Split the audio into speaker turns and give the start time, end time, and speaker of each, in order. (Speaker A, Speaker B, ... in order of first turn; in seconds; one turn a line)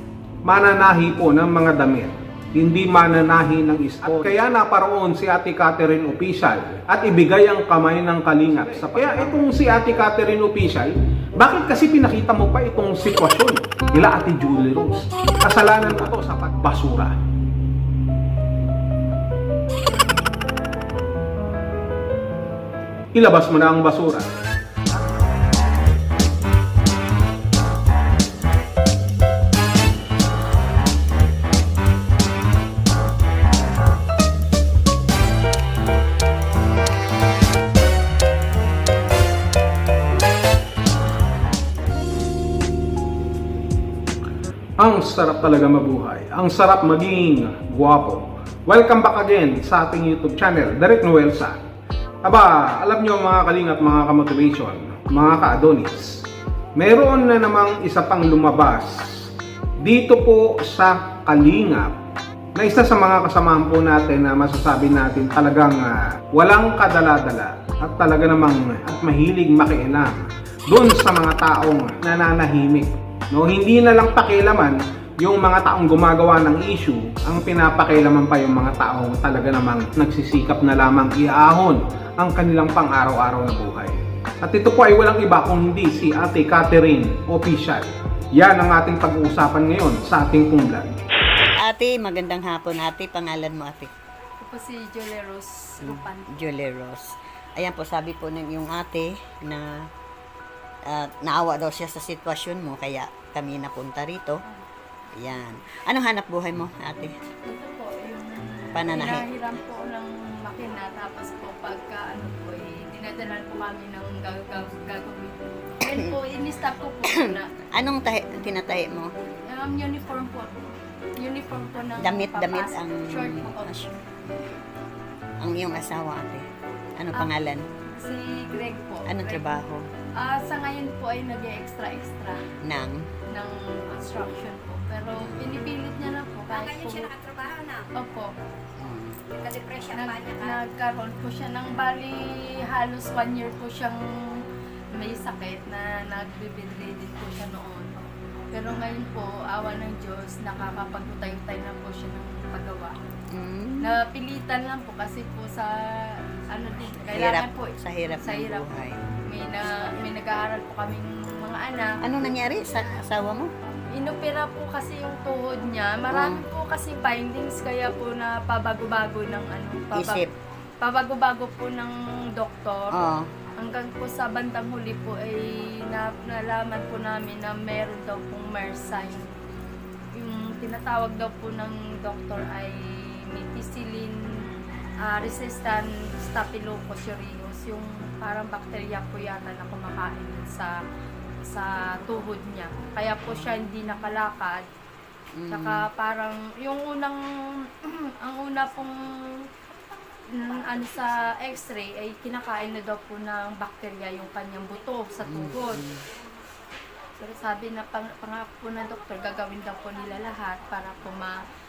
Speaker A: 0.5-17.2
Speaker A: 23.1-24.3
Speaker A: 44.8-51.6
Speaker A: 52.2-62.0
Speaker A: 62.6-90.9
Speaker B: 91.6-93.9
Speaker C: 94.4-96.3
Speaker B: 95.8-99.9
Speaker B: 100.9-104.4
Speaker B: 105.2-107.1
Speaker C: 107.5-117.5
Speaker B: 108.8-109.3
Speaker B: 117.1-119.1
Speaker C: 119.5-123.7
Speaker B: 122.0-124.5
Speaker B: 125.4-126.5
Speaker B: 127.0-127.6
Speaker C: 127.9-129.4
Speaker B: 129.1-129.9
Speaker C: 130.2-132.5
Speaker B: 132.6-133.0
Speaker C: 133.3-137.1
Speaker B: 135.2-135.6
Speaker D: 136.9-137.9
Speaker C: 137.9-138.3
Speaker B: 138.8-139.2
Speaker D: 139.4-140.5
Speaker C: 139.9-144.4
Speaker C: 144.9-153.0
Speaker B: 153.3-153.9
Speaker C: 153.8-158.7
Speaker B: 157.1-159.0
Speaker C: 159.3-162.0
Speaker B: 162.0-163.5
Speaker C: 164.0-170.3
Speaker B: 166.1-166.4
Speaker B: 169.9-170.3
Speaker C: 170.8-173.0
Speaker B: 172.9-173.3
Speaker C: 173.6-179.3
Speaker C: 180.2-184.2
Speaker C: 185.0-190.7
Speaker C: 191.5-194.7
Speaker B: 195.4-195.9
Speaker C: 195.5-197.2
Speaker C: 197.8-198.9
Speaker C: 200.3-205.8
Speaker B: 205.3-206.0
Speaker C: 207.2-211.4